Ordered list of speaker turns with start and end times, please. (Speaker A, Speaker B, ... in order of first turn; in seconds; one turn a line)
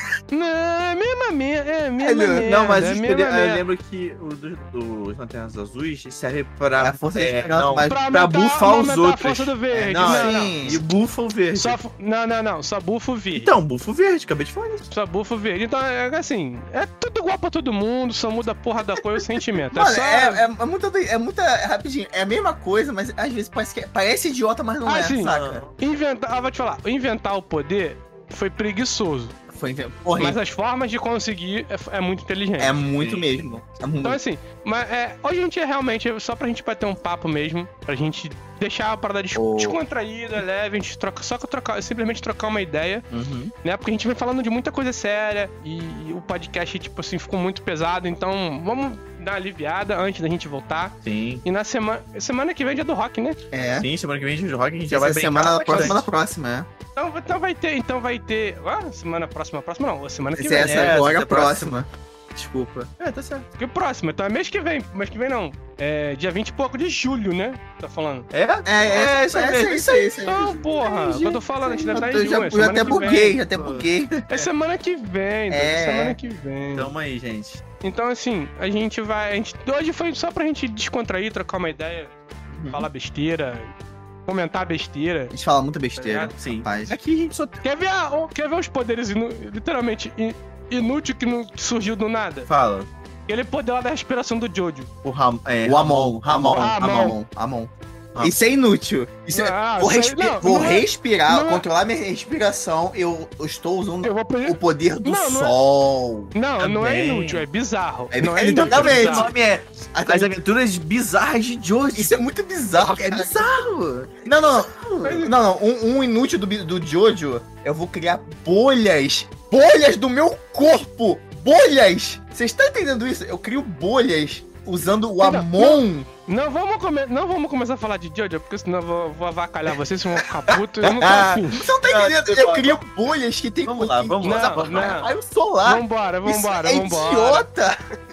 Speaker A: 0.3-3.6
Speaker B: 2.0-2.7
Speaker C: 2.4-11.8
Speaker B: 6.8-8.0
Speaker A: 7.8-10.8
Speaker B: 9.7-10.8
Speaker A: 11.5-13.5
Speaker C: 13.3-14.9
Speaker A: 14.9-20.4
Speaker B: 19.7-25.6
Speaker A: 24.9-29.3
Speaker C: 25.3-25.7
Speaker B: 29.5-30.4
Speaker A: 30.2-32.8
Speaker B: 32.6-34.2
Speaker C: 33.0-33.3
Speaker A: 34.0-43.1
Speaker B: 39.3-39.8
Speaker B: 43.1-43.5
Speaker A: 43.6-53.4
Speaker C: 51.0-51.4
Speaker B: 53.5-53.9
Speaker C: 53.8-56.0
Speaker B: 54.9-56.7
Speaker A: 57.0-60.9
Speaker B: 60.3-62.9
Speaker C: 60.6-61.8
Speaker C: 63.0-63.5
Speaker A: 63.6-68.3
Speaker C: 68.3-70.1
Speaker B: 68.7-74.5
Speaker A: 68.9-69.5
Speaker A: 70.2-73.4
Speaker C: 71.8-73.9
Speaker A: 74.3-76.9
Speaker B: 75.5-76.2
Speaker C: 76.7-77.6
Speaker A: 77.8-82.1
Speaker B: 82.5-82.9
Speaker A: 82.7-83.7
Speaker A: 84.2-85.3
Speaker B: 85.3-87.0
Speaker A: 86.0-86.3
Speaker C: 86.3-87.6
Speaker A: 87.6-92.5
Speaker C: 92.5-92.9
Speaker A: 93.3-94.9
Speaker C: 95.0-96.7
Speaker B: 95.6-107.2
Speaker A: 96.4-97.2
Speaker A: 99.3-101.6
Speaker A: 104.0-105.5
Speaker A: 106.3-109.3
Speaker C: 106.6-107.4
Speaker B: 108.1-109.4
Speaker C: 108.6-112.2
Speaker B: 109.9-110.3
Speaker B: 111.9-126.1
Speaker C: 112.9-113.6
Speaker C: 114.3-114.7
Speaker A: 115.0-115.3
Speaker A: 125.2-131.7
Speaker B: 130.8-137.8
Speaker C: 131.8-132.8
Speaker C: 133.6-135.0
Speaker A: 134.2-135.1
Speaker A: 135.6-137.5